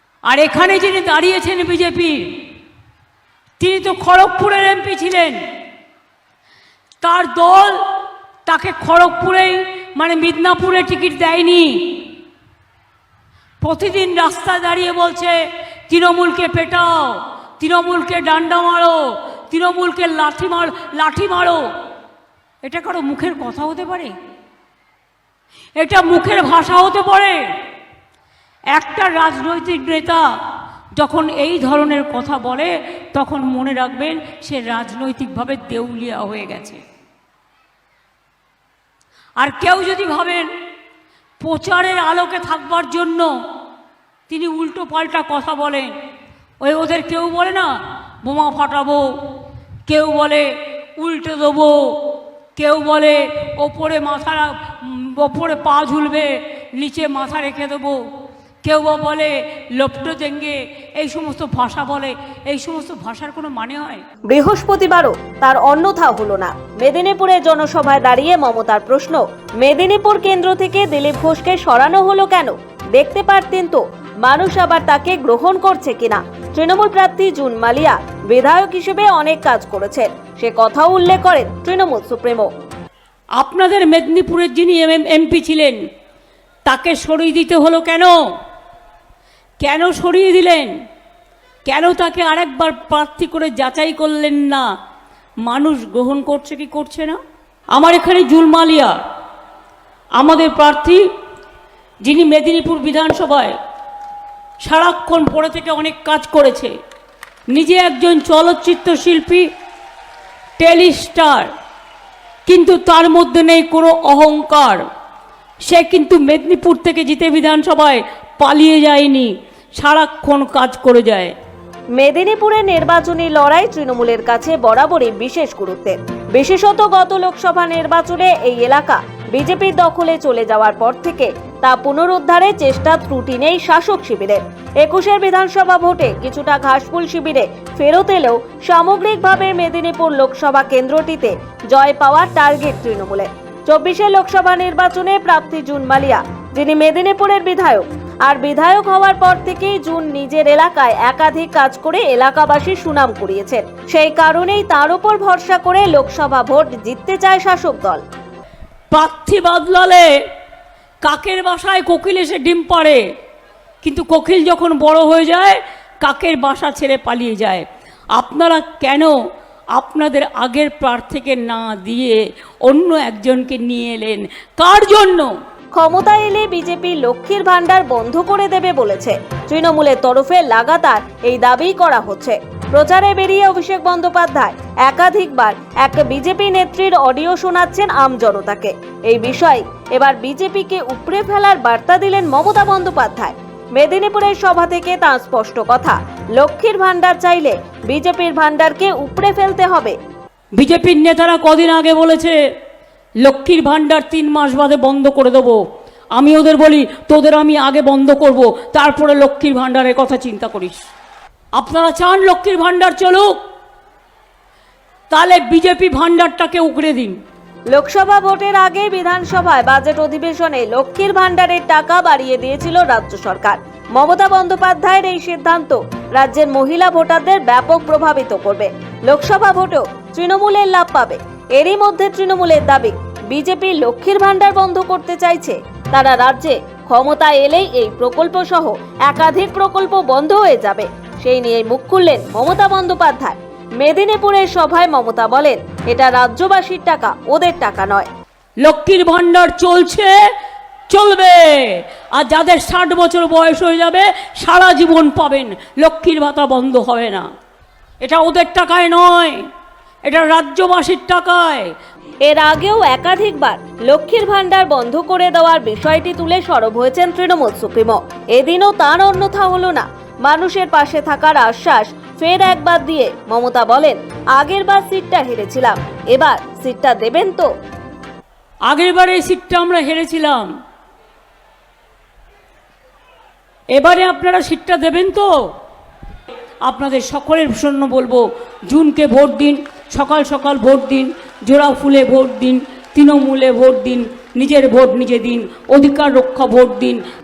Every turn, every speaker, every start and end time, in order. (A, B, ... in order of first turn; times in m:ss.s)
0:00.2-0:02.3 A
0:03.6-0:05.4 A
0:07.0-0:07.8 A
0:08.4-0:12.0 A
0:13.6-0:21.6 A
0:22.6-0:24.1 A
0:25.8-0:27.4 A
0:28.7-0:30.2 A
0:31.0-0:36.8 A
0:39.4-0:40.5 A
0:41.4-0:43.3 A
0:44.3-0:45.9 A
0:46.6-0:47.7 A
0:48.2-0:58.0 A
0:58.6-1:04.0 A
1:04.3-1:22.5 B
1:23.4-1:25.8 A
1:26.6-1:28.2 A
1:29.6-1:30.7 A
1:31.6-1:34.7 A
1:35.4-1:37.2 A
1:37.7-1:38.9 A
1:40.2-1:41.0 A
1:42.0-1:43.6 A
1:44.6-1:46.7 A
1:47.5-1:49.5 A
1:50.6-1:51.5 A
1:52.4-1:54.8 A
1:55.6-2:01.3 A
2:01.9-2:38.0 B
2:38.9-2:40.1 A
2:41.0-2:43.0 A
2:43.8-2:49.1 A
2:49.7-2:55.3 A
2:55.7-3:20.0 B
3:20.6-3:22.4 A
3:23.2-3:25.6 A
3:26.1-3:30.8 A
3:31.6-3:33.4 A
3:35.1-3:37.2 A
3:37.7-4:08.1 B
4:08.6-4:10.1 A
4:10.9-4:17.2 A
4:18.0-4:19.4 A
4:20.0-4:21.7 A
4:22.2-4:37.5 B
4:38.6-4:40.5 A
4:43.7-4:45.3 A
4:46.6-4:57.0 A